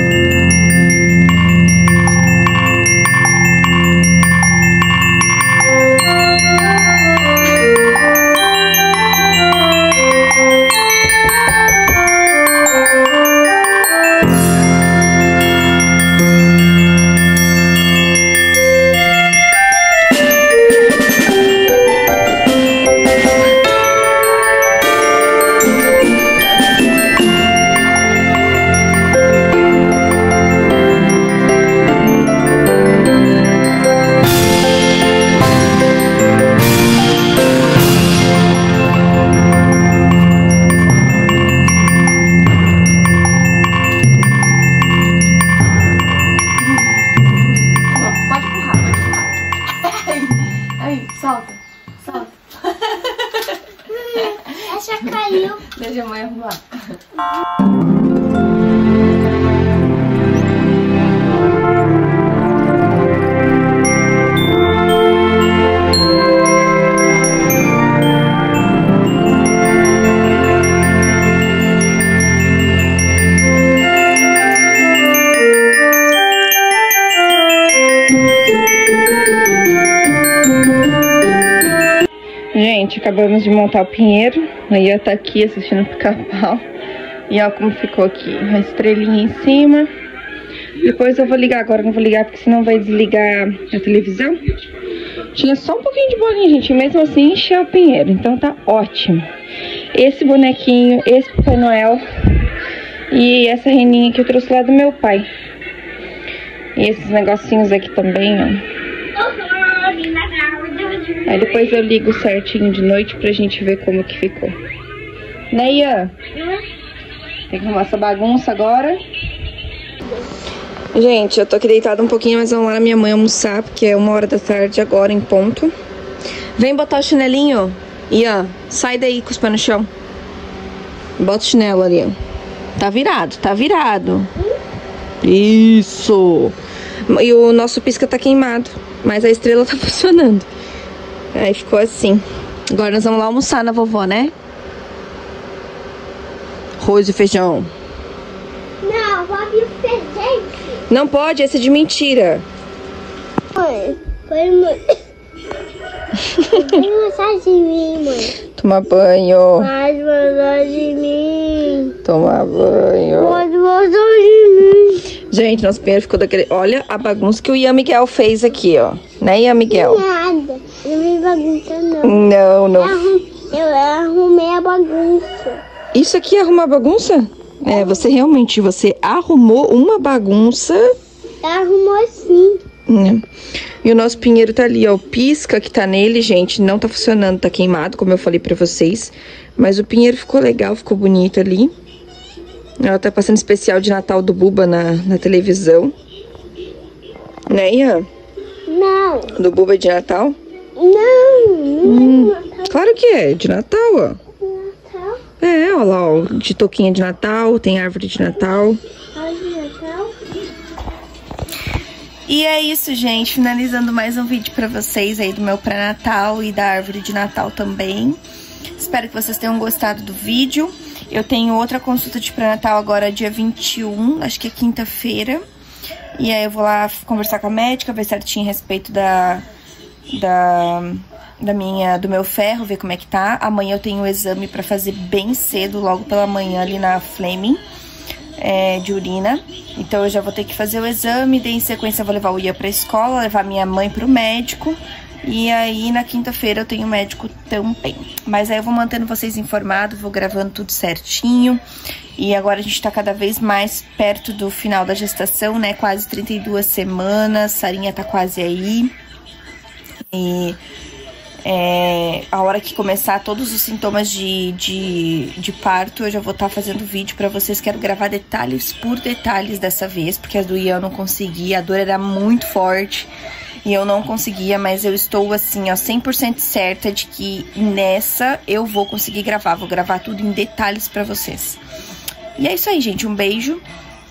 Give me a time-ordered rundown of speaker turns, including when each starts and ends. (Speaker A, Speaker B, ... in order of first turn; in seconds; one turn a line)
Speaker A: 47.9-49.3
Speaker A: 49.8-56.8
Speaker B: 54.5-55.6
Speaker A: 82.5-86.7
Speaker A: 87.3-89.9
Speaker A: 90.8-94.4
Speaker A: 95.3-99.3
Speaker A: 99.9-102.1
Speaker A: 103.1-105.3
Speaker A: 106.8-108.7
Speaker A: 111.1-114.6
Speaker A: 115.5-116.2
Speaker A: 117.5-119.0
Speaker A: 120.9-125.7
Speaker A: 126.6-129.9
Speaker A: 131.2-132.2
Speaker A: 132.8-134.3
Speaker A: 135.2-140.5
Speaker A: 141.3-144.3
Speaker A: 146.8-147.7
Speaker B: 148.8-150.7
Speaker A: 150.9-152.5
Speaker B: 153.6-155.0
Speaker A: 156.2-156.7
Speaker B: 156.5-158.3
Speaker A: 158.4-159.7
Speaker B: 159.6-161.9
Speaker A: 162.1-163.5
Speaker B: 163.2-165.1
Speaker A: 165.2-170.0
Speaker B: 169.7-172.2
Speaker A: 172.0-173.0
Speaker B: 172.8-175.6
Speaker A: 175.9-180.9
Speaker B: 181.4-182.6
Speaker A: 182.9-183.2
Speaker A: 183.8-191.7
Speaker A: 192.8-195.9
Speaker A: 197.5-198.1
Speaker B: 198.7-199.3
Speaker A: 199.3-200.4
Speaker B: 200.8-202.7
Speaker A: 201.8-204.2
Speaker B: 204.4-205.2
Speaker A: 205.4-208.8
Speaker B: 209.1-210.2
Speaker A: 212.3-218.2
Speaker A: 218.8-225.4
Speaker A: 226.2-229.5
Speaker A: 230.1-237.6
Speaker A: 238.4-251.6
Speaker A: 252.2-258.9
Speaker A: 260.1-260.6
Speaker A: 261.4-273.1
Speaker A: 273.6-281.6
Speaker A: 282.4-283.6